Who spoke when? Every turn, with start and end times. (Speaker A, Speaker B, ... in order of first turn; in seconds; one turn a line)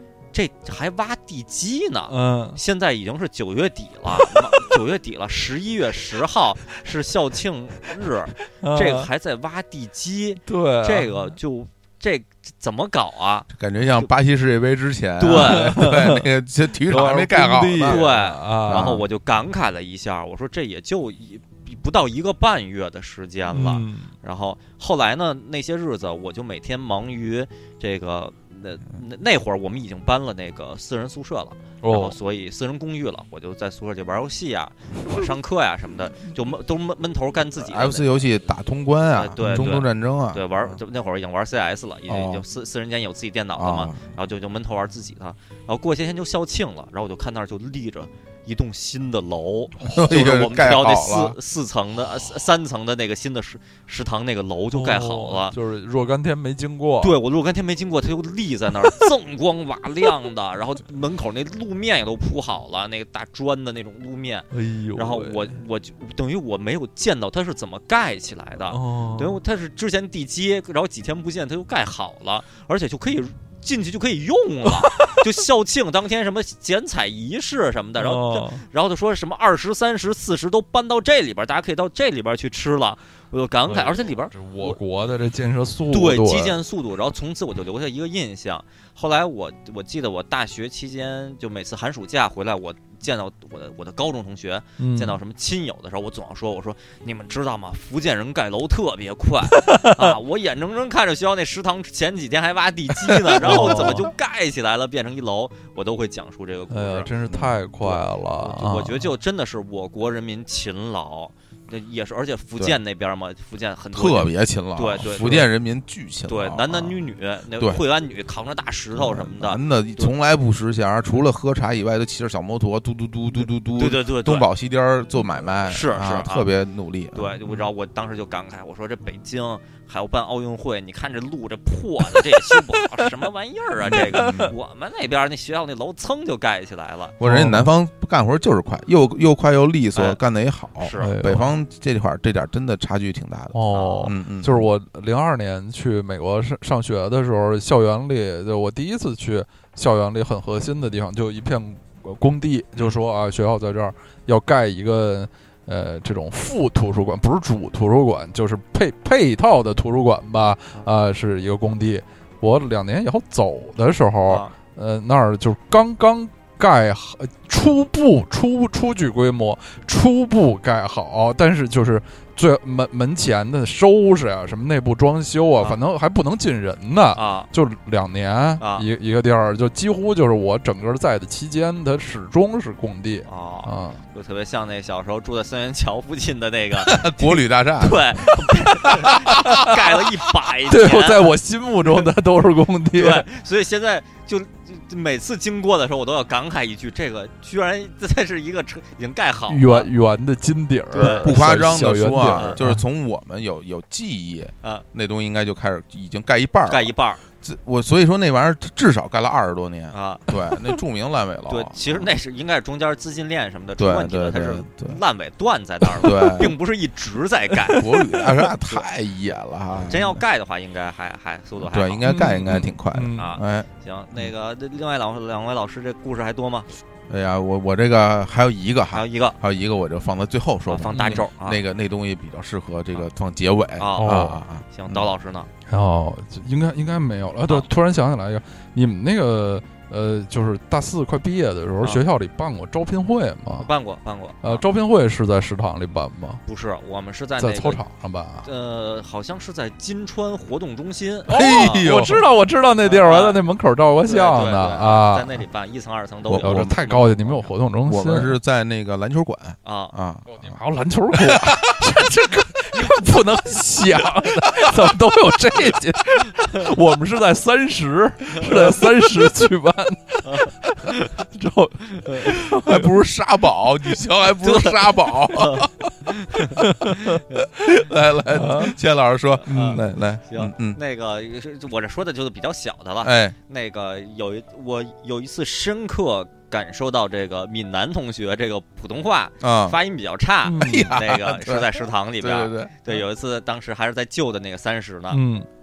Speaker A: 0.3-13.5
Speaker B: 2.1-2.6
Speaker B: 8.6-9.1
Speaker B: 10.5-11.3
Speaker C: 13.5-18.1
Speaker A: 15.2-15.8
Speaker B: 15.4-16.2
Speaker B: 16.9-18.9
Speaker A: 17.8-38.2
Speaker C: 18.7-19.1
Speaker B: 23.5-24.1
Speaker B: 31.8-32.2
Speaker C: 37.6-40.5
Speaker A: 39.1-55.5
Speaker B: 39.4-39.7
Speaker C: 42.1-42.5
Speaker C: 43.6-44.0
Speaker C: 50.0-51.4
Speaker B: 54.7-57.1
Speaker A: 57.0-84.8
Speaker B: 64.5-65.5
Speaker B: 68.7-69.4
Speaker B: 74.9-75.2
Speaker B: 78.0-78.7
Speaker B: 83.7-86.6
Speaker A: 85.9-107.1
Speaker B: 94.8-95.2
Speaker B: 99.6-100.1
Speaker B: 103.4-104.1
Speaker B: 106.7-109.0
Speaker A: 107.8-115.5
Speaker C: 113.9-117.0
Speaker A: 116.3-120.1
Speaker C: 117.6-117.8
Speaker C: 119.0-127.4
Speaker A: 123.8-124.5
Speaker A: 125.7-126.5
Speaker A: 127.1-137.2
Speaker C: 133.8-134.5
Speaker B: 134.0-134.5
Speaker C: 137.2-144.7
Speaker B: 137.2-137.7
Speaker A: 140.8-141.2
Speaker B: 141.0-141.5
Speaker B: 143.5-184.0
Speaker A: 143.7-144.1
Speaker A: 164.3-164.5
Speaker A: 177.2-177.5
Speaker A: 178.6-178.9
Speaker A: 183.3-191.3
Speaker C: 186.9-188.1
Speaker C: 188.9-189.7
Speaker B: 189.4-189.7
Speaker B: 190.7-193.3
Speaker A: 192.9-199.9
Speaker B: 199.5-202.8
Speaker A: 200.9-201.5
Speaker C: 201.1-212.1
Speaker A: 202.2-202.6
Speaker A: 206.7-207.2
Speaker A: 209.9-210.3
Speaker A: 211.5-218.9
Speaker C: 213.8-215.0
Speaker C: 216.0-216.6
Speaker C: 217.7-220.2
Speaker A: 219.8-222.1
Speaker C: 221.6-223.7
Speaker B: 222.1-223.3
Speaker A: 223.2-226.7
Speaker C: 227.1-235.1
Speaker A: 228.9-229.4
Speaker A: 230.7-231.6
Speaker A: 233.8-235.5
Speaker B: 234.0-234.4
Speaker B: 235.7-243.7
Speaker A: 243.6-244.6
Speaker B: 244.4-246.4
Speaker A: 246.5-247.8
Speaker B: 247.4-248.5
Speaker A: 248.4-251.9
Speaker B: 251.3-255.3
Speaker C: 251.3-252.2
Speaker A: 252.8-253.4
Speaker A: 254.0-257.5
Speaker C: 256.2-256.8
Speaker B: 256.4-258.3
Speaker C: 257.9-260.3
Speaker A: 259.6-259.9
Speaker B: 260.3-272.9
Speaker C: 261.2-261.8
Speaker A: 268.4-268.7
Speaker A: 270.3-271.1
Speaker C: 272.4-275.7
Speaker A: 274.4-276.6
Speaker B: 276.6-277.2
Speaker C: 277.6-280.8
Speaker B: 278.3-278.7
Speaker A: 279.4-295.2
Speaker B: 279.5-279.8
Speaker C: 283.0-283.4
Speaker C: 289.4-289.8
Speaker B: 290.4-290.9
Speaker C: 290.6-292.9
Speaker B: 295.1-295.5